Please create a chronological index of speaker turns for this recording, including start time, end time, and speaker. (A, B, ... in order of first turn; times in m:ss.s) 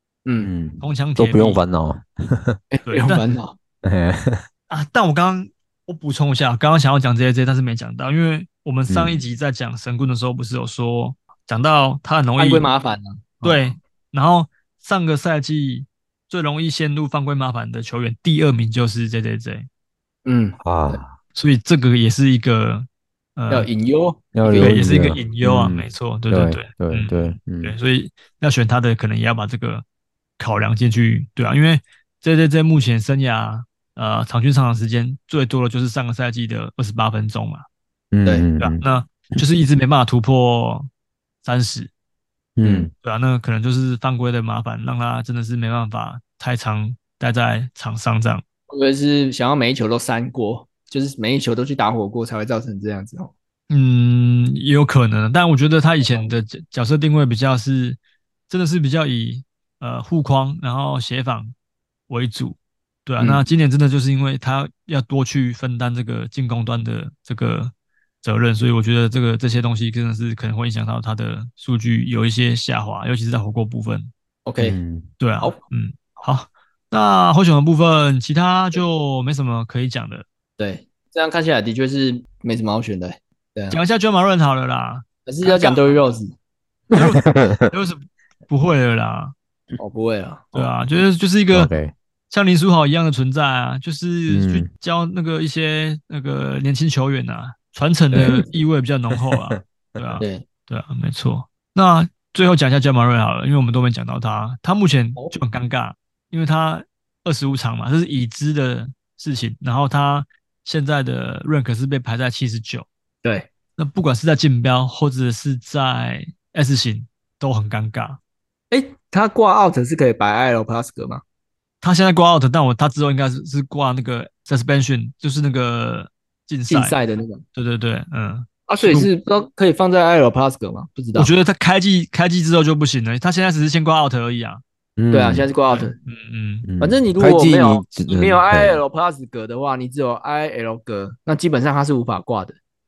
0:00.3-0:00.5 A
0:00.4-0:02.6 B
0:00.8-0:01.6 C
0:02.7-0:03.6 A
0:02.9-0:03.2 C
0:03.8-0:04.4 B
0:04.7-0:12.7 C
0:08.9-0:09.2 B
0:12.4-0:13.7 A
0:13.4-0:19.7 C
0:20.2-0:21.0 A
0:20.6-0:21.1 B
0:21.4-0:23.7 C
0:23.5-0:25.0 A
0:24.4-0:27.8 B
0:24.6-0:29.8 C
0:30.4-0:37.6 C
0:38.1-0:38.8 B
0:38.6-0:40.9 C
0:41.4-0:41.9 C
0:42.6-0:42.9 B
0:42.6-0:42.9 A
0:43.0-0:48.4 C
0:48.7-0:53.3 A
0:53.7-1:01.5 C
1:02.1-1:14.1 C
1:14.5-1:14.8 A
1:14.6-1:15.1 B
1:15.2-1:20.2 C
1:20.6-1:23.8 A
1:23.7-1:26.0 C
1:25.3-1:26.3 A
1:26.9-1:27.7 B
1:26.9-1:29.3 C
1:29.8-1:30.7 A
1:30.5-1:31.7 C
1:31.5-1:31.9 B
1:32.3-1:52.9 C
1:34.3-1:34.7 B
1:38.1-1:38.5 A
1:53.8-1:58.2 C
1:58.7-2:01.2 A
2:01.8-2:07.0 C
2:06.7-2:07.4 A
2:07.6-2:09.1 C
2:08.7-2:11.3 A
2:11.2-2:14.6 C
2:15.0-2:15.5 B
2:15.1-2:16.0 A
2:15.7-2:16.7 C
2:16.6-2:18.8 B
2:16.8-2:22.6 A